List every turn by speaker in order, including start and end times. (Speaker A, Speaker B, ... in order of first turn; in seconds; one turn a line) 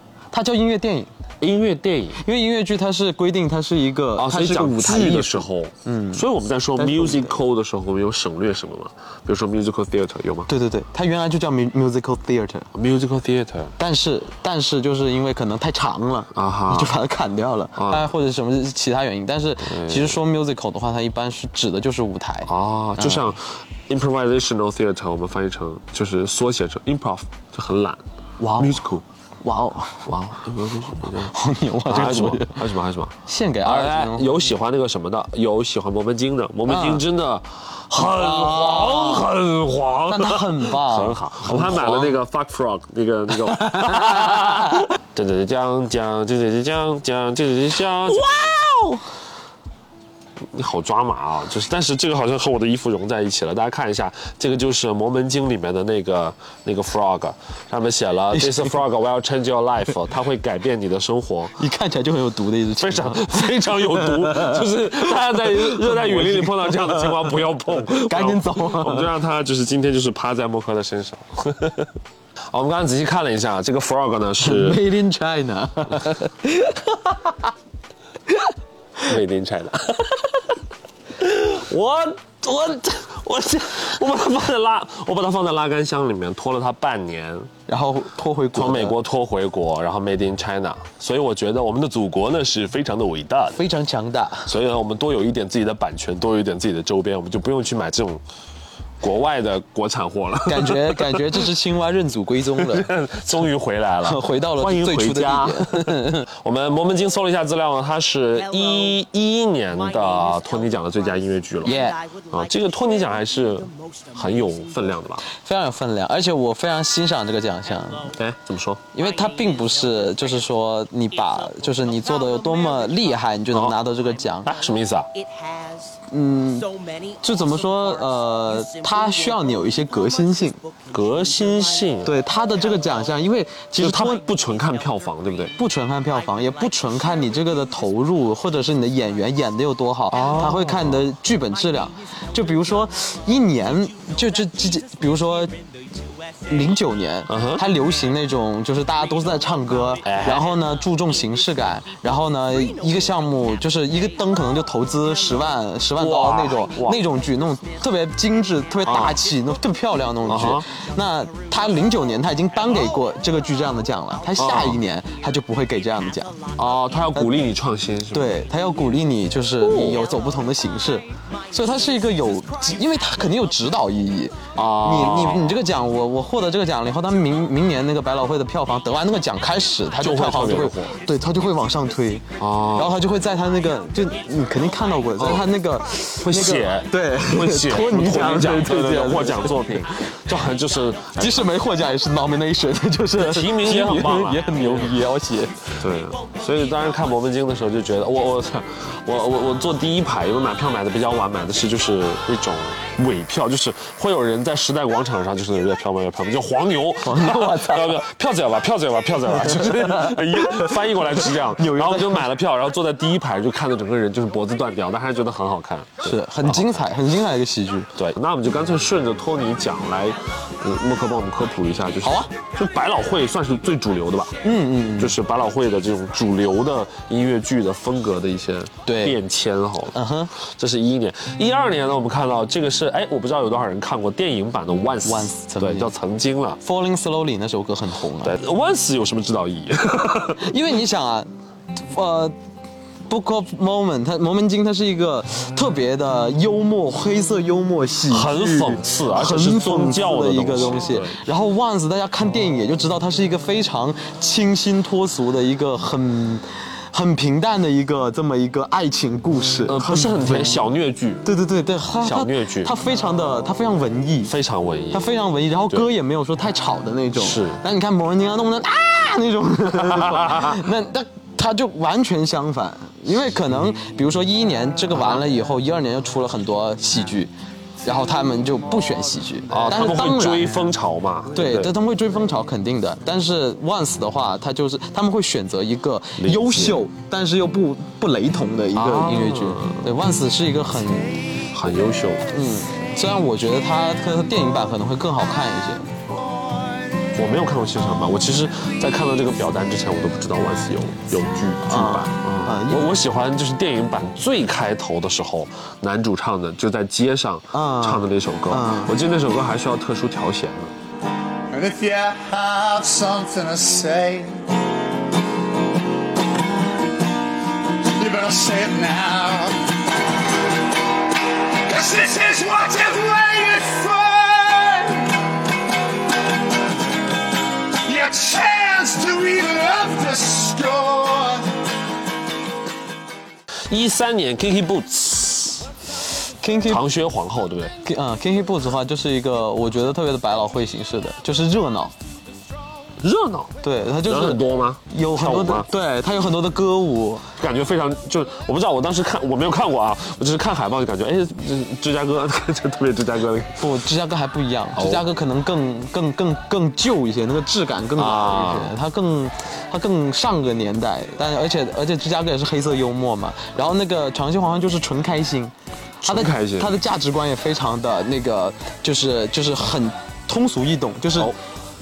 Speaker A: 0.3-1.1
Speaker B: 1.4-2.2
Speaker A: 2.2-6.2
Speaker B: 4.2-10.5
Speaker A: 6.8-7.4
Speaker A: 10.5-12.7
Speaker B: 12.7-13.7
Speaker A: 13.8-23.3
Speaker B: 16.3-16.9
Speaker B: 17.8-18.1
Speaker B: 19.6-20.2
Speaker B: 22.4-28.0
Speaker A: 28.4-28.8
Speaker B: 28.5-29.0
Speaker A: 29.4-30.1
Speaker B: 30.1-48.2
Speaker A: 31.2-32.6
Speaker A: 33.2-34.4
Speaker A: 36.7-37.0
Speaker A: 37.9-39.3
Speaker A: 40.1-42.2
Speaker A: 43.6-44.8
Speaker A: 48.1-49.0
Speaker B: 50.5-61.6
Speaker A: 58.3-58.7
Speaker A: 61.6-67.3
Speaker B: 62.8-71.9
Speaker A: 67.9-69.1
Speaker B: 72.5-74.8
Speaker A: 74.4-77.5
Speaker B: 79.0-80.5
Speaker B: 81.2-87.5
Speaker A: 87.7-88.9
Speaker B: 88.5-93.6
Speaker A: 93.5-94.5
Speaker B: 94.5-98.2
Speaker B: 99.0-101.5
Speaker A: 100.5-102.9
Speaker B: 102.5-115.2
Speaker A: 104.0-106.3
Speaker C: 108.3-109.1
Speaker C: 109.7-115.2
Speaker A: 111.6-112.0
Speaker A: 115.4-118.1
Speaker C: 117.6-118.2
Speaker B: 118.1-118.8
Speaker A: 118.9-124.5
Speaker C: 118.9-174.3
Speaker B: 123.5-123.8
Speaker B: 124.4-125.1
Speaker A: 126.1-126.7
Speaker A: 127.2-130.6
Speaker B: 130.9-132.2
Speaker A: 132.0-134.2
Speaker B: 133.7-135.5
Speaker A: 135.6-145.5
Speaker B: 140.1-141.1
Speaker A: 146.5-166.3
Speaker B: 147.3-147.6
Speaker B: 150.0-150.5
Speaker B: 156.0-157.0
Speaker B: 158.8-159.2
Speaker B: 160.2-160.6
Speaker B: 164.4-164.8
Speaker B: 166.5-168.4
Speaker A: 168.1-189.8
Speaker B: 169.6-170.0
Speaker B: 174.5-175.6
Speaker C: 177.1-177.8
Speaker C: 178.9-185.6
Speaker B: 180.0-181.0
Speaker B: 182.4-183.0
Speaker B: 185.2-185.5
Speaker B: 186.2-191.5
Speaker A: 191.2-195.7
Speaker B: 193.2-194.9
Speaker B: 195.8-216.9
Speaker A: 207.0-208.0
Speaker A: 209.3-212.3
Speaker A: 216.0-217.9
Speaker B: 217.9-224.4
Speaker A: 222.0-222.3
Speaker A: 224.4-225.2
Speaker B: 225.0-236.6
Speaker A: 228.8-229.2
Speaker A: 229.9-230.3
Speaker A: 235.0-235.9
Speaker A: 236.6-238.3
Speaker B: 238.2-240.5
Speaker A: 240.4-242.3
Speaker A: 243.1-260.5
Speaker B: 248.1-251.2
Speaker B: 259.7-261.3
Speaker A: 261.2-264.3
Speaker B: 262.0-262.7
Speaker B: 264.2-265.1
Speaker A: 264.9-277.3
Speaker B: 267.1-267.6
Speaker B: 269.7-270.6
Speaker A: 277.8-280.7
Speaker B: 279.5-281.7
Speaker A: 281.3-291.2
Speaker B: 286.2-286.8
Speaker B: 288.7-289.9
Speaker B: 291.5-292.3
Speaker A: 292.3-295.9
Speaker B: 297.1-310.7
Speaker A: 301.7-303.0
Speaker A: 307.5-308.9
Speaker D: 311.5-314.5
Speaker D: 317.8-319.8
Speaker D: 321.5-325.2
Speaker D: 327.8-331.6
Speaker B: 333.7-335.7
Speaker A: 336.4-336.8
Speaker B: 336.7-337.8
Speaker A: 337.8-341.9
Speaker B: 343.0-345.7
Speaker A: 343.6-347.3
Speaker B: 347.3-353.7
Speaker A: 353.6-365.5
Speaker B: 354.8-355.1
Speaker B: 357.9-358.7
Speaker B: 366.0-366.7
Speaker A: 366.0-371.3